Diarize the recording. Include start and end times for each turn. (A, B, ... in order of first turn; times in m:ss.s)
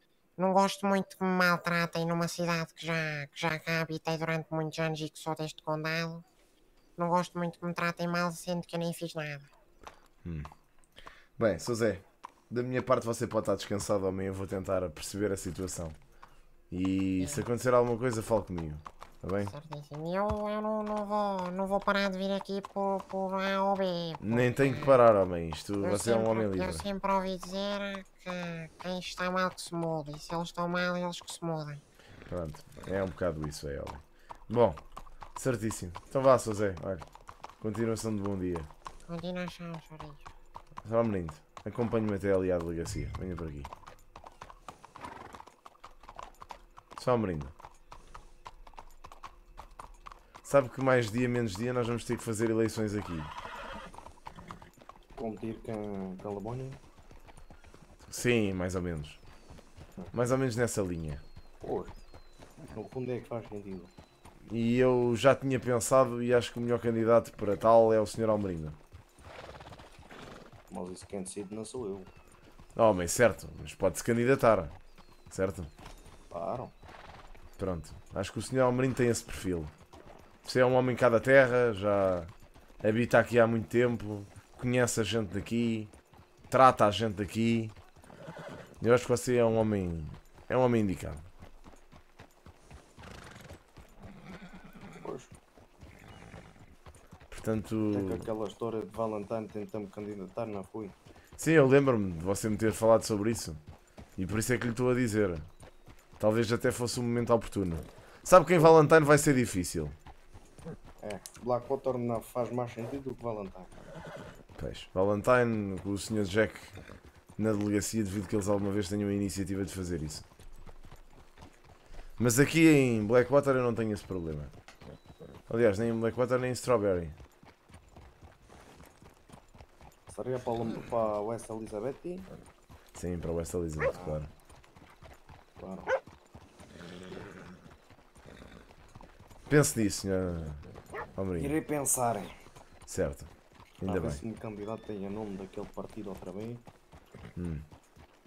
0:00.4-0:06.2 A
0:07.0-0:09.5 A
0:10.2-0:10.5 B
0:11.4-0:16.0 B
0:16.7-0:19.5 B
0:17.2-0:17.4 A
0:19.4-0:25.0 A
0:24.2-0:26.9 B
0:25.8-0:31.8 A
0:32.3-0:34.8 B
0:35.4-0:37.0 B
0:37.6-0:38.7 B
0:39.0-0:40.2 A
0:40.8-0:43.7 B
0:47.0-0:47.5 B
0:50.4-0:53.3 B
0:55.2-0:56.8 C
0:58.1-0:59.2 B
1:00.1-1:01.2 B
1:01.6-1:01.9 C
1:02.7-1:03.9 C
1:04.5-1:08.8 B
1:10.7-1:12.1 C
1:12.8-1:14.7 B
1:15.3-1:15.7 B
1:16.3-1:16.7 C
1:17.6-1:19.7 B
1:20.4-1:25.9 B
1:26.5-1:27.7 B
1:28.8-1:31.2 B
1:35.0-1:35.3 C
1:37.3-1:38.3 B
1:37.9-1:40.9 C
1:41.4-1:43.6 B
1:44.2-1:45.5 B
1:46.2-1:50.0 B
1:51.0-1:53.7 C
1:54.6-1:56.8 B
1:57.4-2:00.2 B
2:02.2-2:04.5 B
2:05.5-2:07.2 B
2:10.1-2:12.3 C
2:12.9-2:14.3 B
2:13.9-2:14.2 C
2:15.6-2:15.9 C
2:19.5-2:20.6 B
2:21.2-2:21.6 B
2:21.4-2:22.4 C
2:22.9-2:23.3 B
2:23.8-2:24.2 B
2:23.8-2:26.6 C
2:27.4-2:27.6 B